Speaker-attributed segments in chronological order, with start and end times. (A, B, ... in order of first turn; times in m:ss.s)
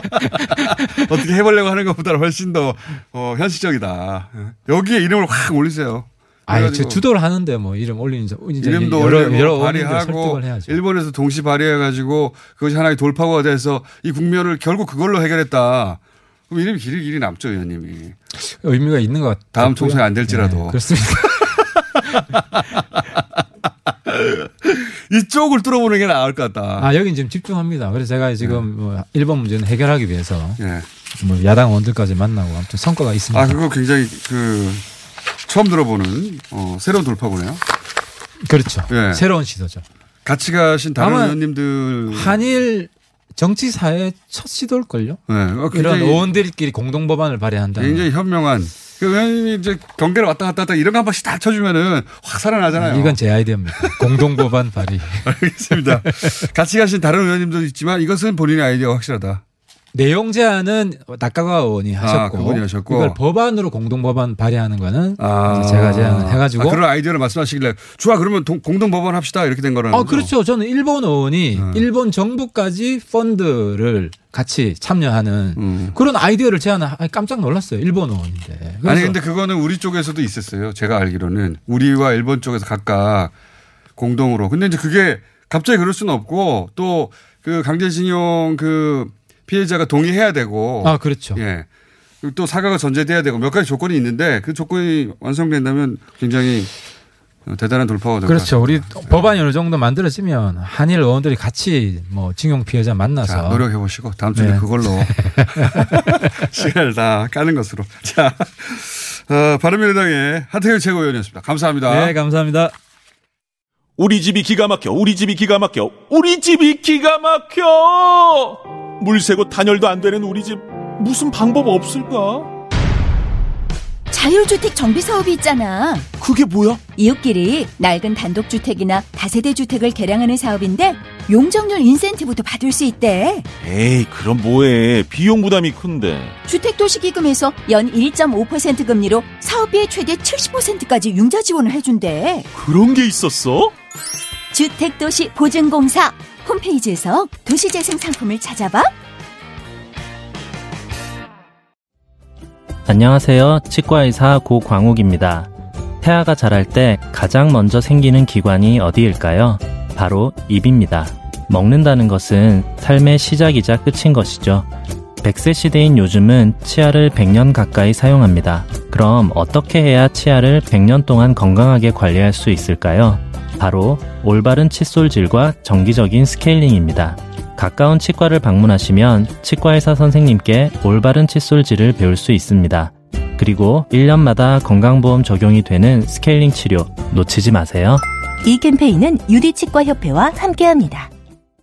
0:00.2-0:07.0 A
0:00.4-0:01.1 B
0:06.5-0:10.8 B
0:08.6-0:18.2 A
0:18.4-0:21.6 B
0:19.5-0:20.8 A
0:24.0-0:26.9 A
0:26.8-0:30.6 B
0:30.6-0:30.9 A
0:31.2-0:33.6 B
0:33.3-0:34.8 A
0:35.4-0:37.6 A
0:38.4-0:39.8 B
0:38.9-0:39.2 A
0:40.2-0:42.6 A
0:41.0-0:41.4 B
0:42.1-0:45.2 B
0:45.3-0:46.3 A
0:45.7-0:48.1 B
0:47.8-0:53.2 A
0:52.7-0:56.3 B
0:53.8-0:54.0 A
0:55.2-0:59.4 A
0:59.9-1:06.8 B
1:02.0-1:03.2 A
1:05.2-1:10.3 A
1:09.9-1:19.2 B
1:11.5-1:11.8 A
1:15.6-1:16.0 A
1:18.8-1:23.3 A
1:24.0-1:31.7 A
1:30.8-1:31.4 B
1:32.2-1:36.7 A
1:37.4-1:39.2 A
1:38.2-1:43.6 B
1:43.2-1:52.2 A
1:44.3-1:46.2 B
1:51.9-1:52.7 B
1:54.0-2:02.5 C
2:04.1-2:06.1 D
2:06.2-2:06.8 C
2:06.9-2:13.5 D
2:13.6-2:16.4 C
2:16.5-2:22.5 D
2:22.5-2:23.7 C
2:24.5-2:28.9 D
2:32.8-2:35.5 E
2:36.0-2:44.7 E
2:45.2-3:08.0 E